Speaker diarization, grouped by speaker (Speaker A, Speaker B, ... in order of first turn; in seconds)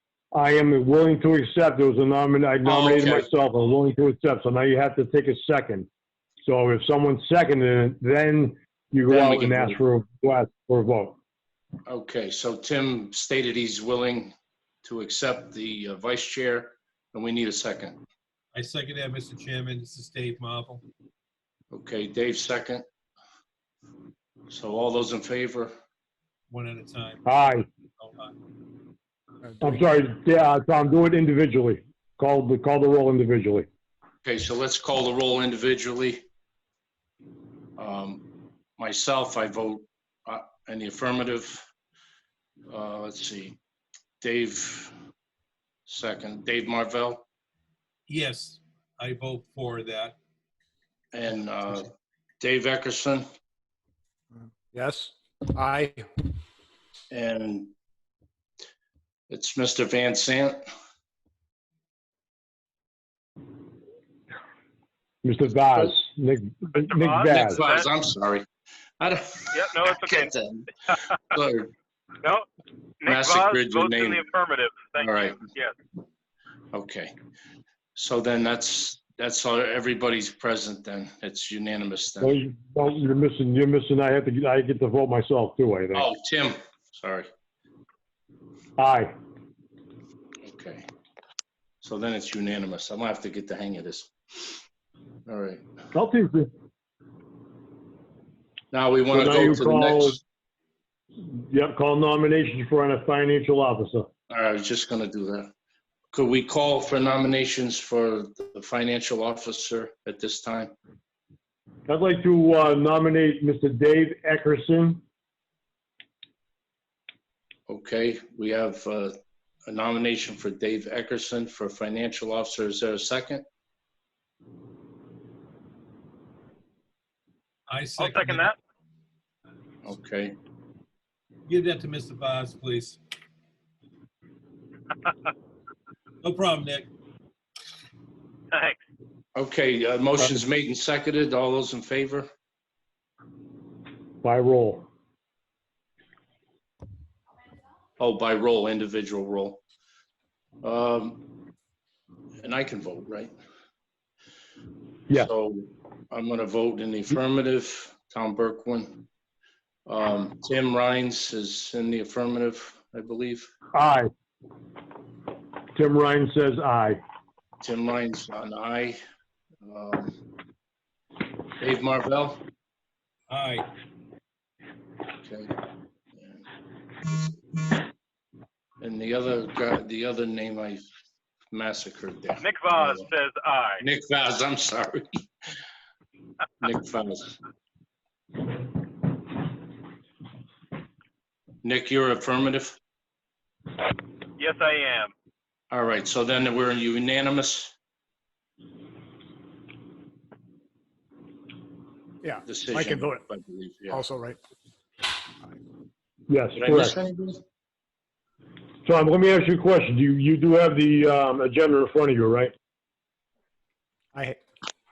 Speaker A: 0.3-5.9, 6.5-11.2, 27.2-27.7, 29.6-33.7, 65.2-67.6, 82.2-86.0, 88.8-89.1, 95.9-96.5, 99.1-100.2, 101.2-104.1, 111.9-115.0, 144.2-144.9, 163.7-164.1, 165.8-167.0, 206.3-207.0, 208.9-212.5
Speaker B: 2.6-3.3, 9.1-9.8, 11.9-18.0, 21.7-22.9, 24.5-25.7, 34.2-36.2, 37.8-38.2, 38.8-41.7, 42.7-43.6, 44.2-44.9, 45.9-47.2, 51.1-53.2, 57.1-57.7, 59.3-60.6, 67.3-68.5, 69.0-71.7, 73.1-74.2, 75.0-75.4, 76.7-77.1, 78.0-82.3, 85.9-87.3, 90.5-90.8, 91.8-94.5, 95.3-95.6, 98.7-100.2, 104.3-105.5, 106.1-110.7, 117.7-123.5, 129.8-130.4, 139.3-142.3, 148.0-149.6, 150.6-151.2, 152.4-153.3, 155.1-159.0, 159.9-163.5, 167.6-169.0, 169.6-170.2, 171.6-172.4, 175.2-175.5, 176.2-176.4, 178.8-180.8, 181.5-183.1, 183.8-185.1, 186.6-187.3, 191.6-192.8, 195.7-197.7, 202.5-204.0, 206.6-207.4
Speaker C: 18.5-20.8, 26.5-27.2, 28.0-28.3, 48.1-50.2, 127.7-128.5, 131.5-133.0, 136.2-136.9, 173.3-173.7
Speaker D: 54.7-56.1, 202.2-203.2, 203.9-204.4, 214.1-214.4
Speaker E: 66.7-67.8, 69.5-70.3, 73.0-75.8, 128.0-128.6, 138.5-138.8, 182.4-183.8, 194.4-195.1